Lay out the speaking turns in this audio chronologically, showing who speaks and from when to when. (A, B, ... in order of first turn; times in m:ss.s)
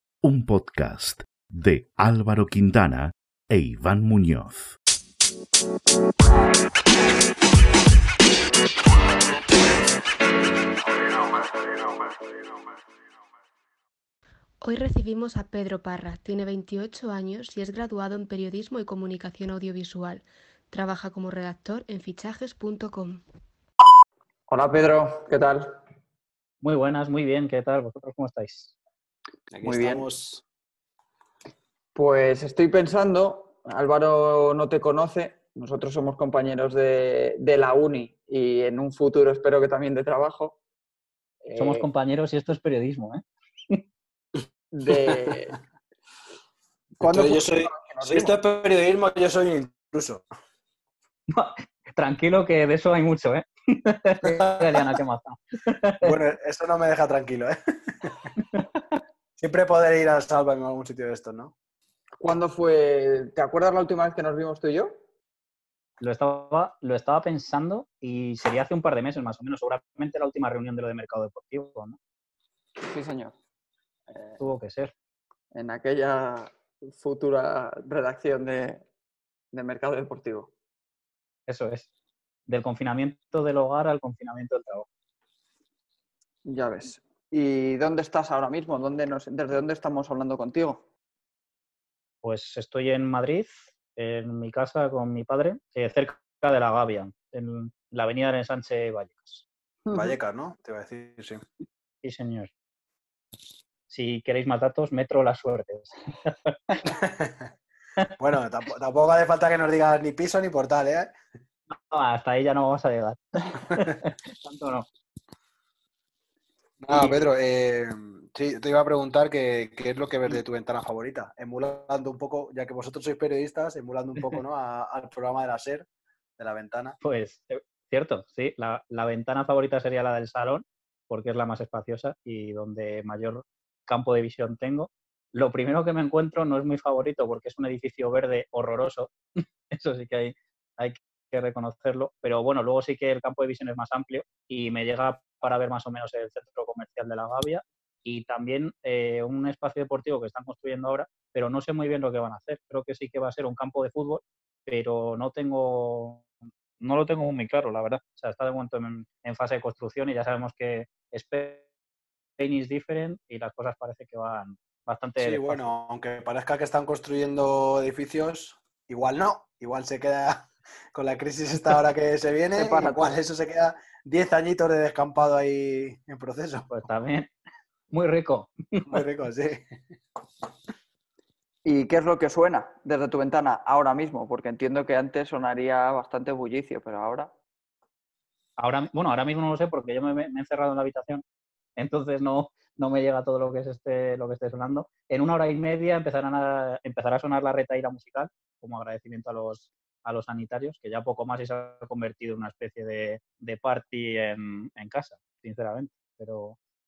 0:00.2-0:04.8 A
0:14.6-0:23.2 B
0:24.5-0:25.8 C
0:26.6-0:28.7 D
0:29.5-0:30.4 E
0:29.6-0:30.1 C
0:31.9-0:40.6 C
0:41.4-0:41.8 C
0:41.5-0:43.8 D
0:44.7-0:45.6 C
0:47.0-0:48.4 C
0:47.0-0:50.2 E
0:51.3-0:56.1 D
0:54.2-0:54.8 E
0:56.0-0:58.3 E
0:59.4-1:01.5 E
1:02.2-1:05.0 C
1:06.0-1:12.0 D
1:12.8-1:13.3 C
1:14.4-1:14.9 D
1:15.5-1:18.8 C
1:19.5-1:20.5 C
1:21.5-1:21.9 D
1:22.5-1:24.9 D
1:26.4-1:30.8 C
1:32.2-1:39.4 D
1:39.8-1:40.2 C
1:39.9-1:41.4 E
1:42.0-1:42.5 D
1:43.9-1:46.8 D
1:46.8-1:47.5 E
1:48.2-1:51.1 E
1:51.9-1:54.9 D
1:56.8-2:05.8 E
1:56.9-1:57.2 D
2:06.4-2:07.0 E
2:07.0-2:36.3 D
2:36.8-2:41.7 D
2:42.4-2:45.6 D
2:45.2-2:56.7 E
2:52.6-2:53.1 C
2:56.7-2:57.3 D
2:57.9-2:59.0 D
2:58.8-2:59.7 E
3:01.6-3:07.3 C
3:08.6-3:11.2 D
3:11.8-3:26.6 D